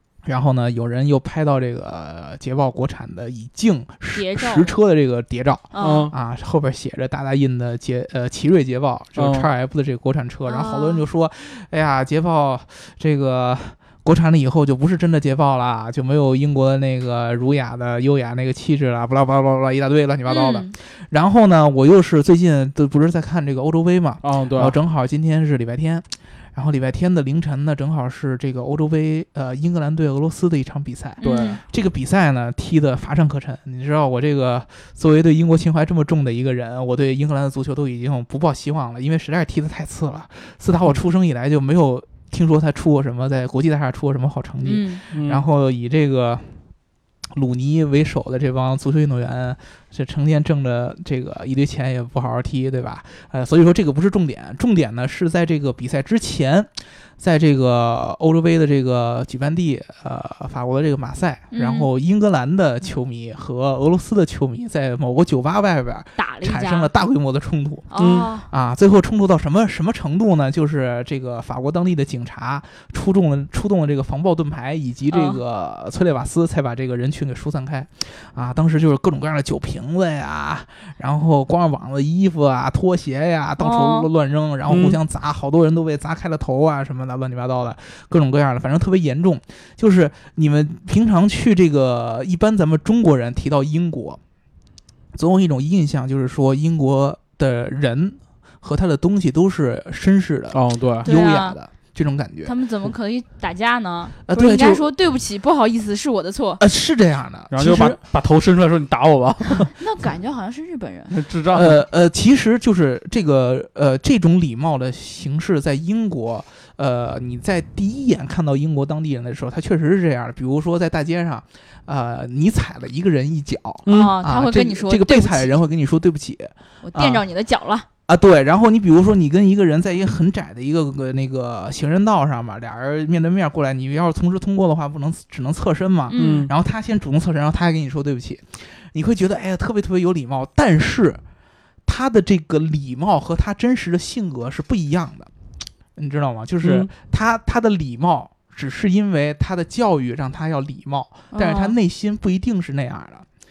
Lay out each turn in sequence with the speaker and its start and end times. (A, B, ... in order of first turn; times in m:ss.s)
0:00.2-0:46.6 A
0:04.1-0:04.8 B
0:05.7-0:06.1 B
0:05.8-0:06.1 C
0:09.2-0:09.5 C
0:10.5-0:11.0 B
0:20.3-0:20.8 B
0:24.2-0:24.8 C
0:31.2-0:31.6 B
0:31.2-0:31.6 C
0:44.6-0:45.0 B
0:45.1-0:45.4 C
0:47.3-1:34.2 A
1:01.5-1:01.9 B
1:06.2-1:06.9 B
1:07.9-1:08.5 B
1:08.0-1:08.3 C
1:15.1-1:15.4 B
1:23.6-1:24.1 B
1:24.7-1:25.0 C
1:35.1-1:42.5 A
1:40.5-1:41.1 C
1:41.0-1:41.6 B
1:42.4-1:46.6 B
1:44.2-1:44.9 A
1:46.6-1:48.0 A
1:47.5-1:49.7 C
1:49.7-1:51.1 B
1:51.1-1:51.8 C
1:51.5-2:07.2 A
2:03.9-2:04.2 C
2:03.9-2:05.6 B
2:06.8-2:07.9 B
2:08.1-2:21.2 A
2:16.1-2:16.5 B
2:16.2-2:16.5 C
2:21.8-2:25.3 A
2:26.0-2:33.3 A
2:26.6-2:26.9 C
2:31.3-2:31.8 B